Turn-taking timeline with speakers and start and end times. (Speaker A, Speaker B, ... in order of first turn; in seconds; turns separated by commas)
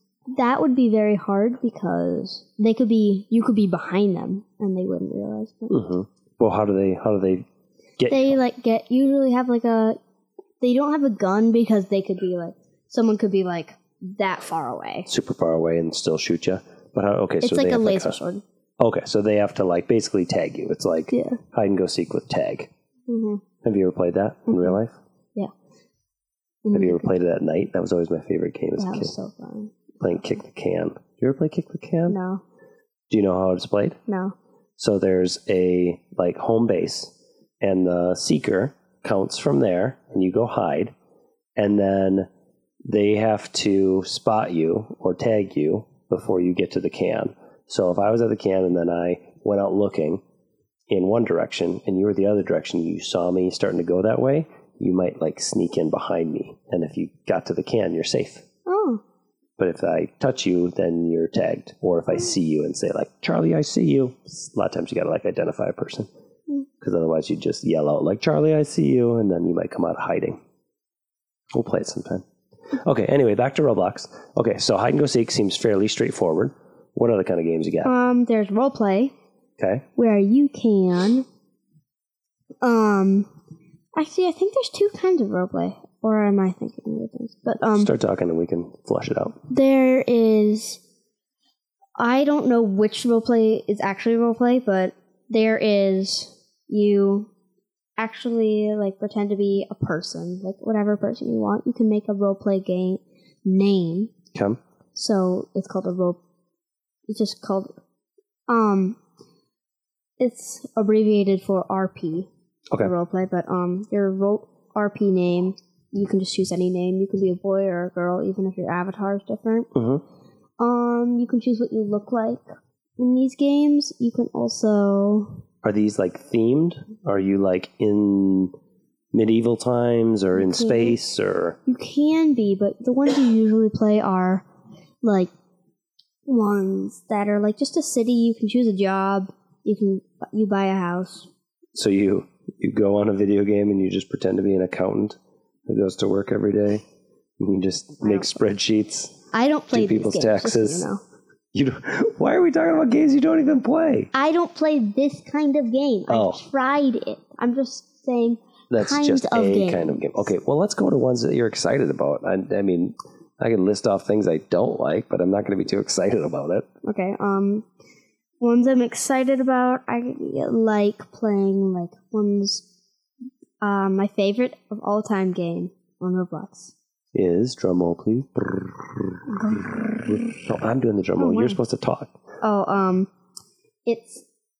Speaker A: 0.3-5.8, Speaker B: 5.7-7.4, Speaker B: 8.0-8.4, Speaker A: 8.1-10.0, Speaker A: 10.6-15.1, Speaker B: 15.1-18.2, Speaker A: 17.4-18.4, Speaker B: 18.8-22.7, Speaker A: 21.1-21.4, Speaker A: 23.1-23.4, Speaker B: 23.6-24.9, Speaker A: 24.5-24.7, Speaker A: 26.6-27.1, Speaker B: 26.7-29.1, Speaker A: 28.8-29.8, Speaker B: 30.0-32.2, Speaker A: 32.1-32.4, Speaker B: 33.1-34.0, Speaker A: 34.1-34.3, Speaker B: 34.8-40.9, Speaker B: 41.6-42.3, Speaker B: 42.9-50.2, Speaker B: 50.9-58.4, Speaker A: 58.6-59.0, Speaker B: 59.6-66.1, Speaker B: 66.8-70.4, Speaker B: 71.5-72.2, Speaker B: 72.8-77.9, Speaker A: 77.8-79.1, Speaker B: 79.6-79.8, Speaker A: 80.0-81.2, Speaker A: 82.6-83.3, Speaker A: 84.0-87.9, Speaker B: 87.7-89.4, Speaker A: 89.5-90.8, Speaker A: 92.0-97.3, Speaker A: 98.0-104.1, Speaker A: 104.9-106.2, Speaker A: 107.1-107.7, Speaker A: 108.5-109.0, Speaker A: 110.2-112.3, Speaker A: 112.8-119.7, Speaker B: 119.7-120.0, Speaker A: 120.6-122.4, Speaker A: 123.0-125.4, Speaker B: 125.6-128.5, Speaker B: 129.1-131.6, Speaker A: 130.3-131.0, Speaker A: 131.7-134.4, Speaker A: 135.0-135.3, Speaker A: 136.2-141.3, Speaker B: 141.7-146.8, Speaker B: 147.4-149.1, Speaker A: 148.0-148.3, Speaker A: 149.3-151.0, Speaker B: 149.7-150.9, Speaker B: 151.5-154.1, Speaker A: 154.1-160.3, Speaker B: 156.1-156.4, Speaker B: 158.7-166.7, Speaker A: 166.8-167.7, Speaker A: 168.4-172.7, Speaker A: 173.6-176.7, Speaker B: 177.1-182.1, Speaker A: 179.3-180.2, Speaker A: 181.2-181.6, Speaker A: 182.4-183.1, Speaker A: 183.8-184.2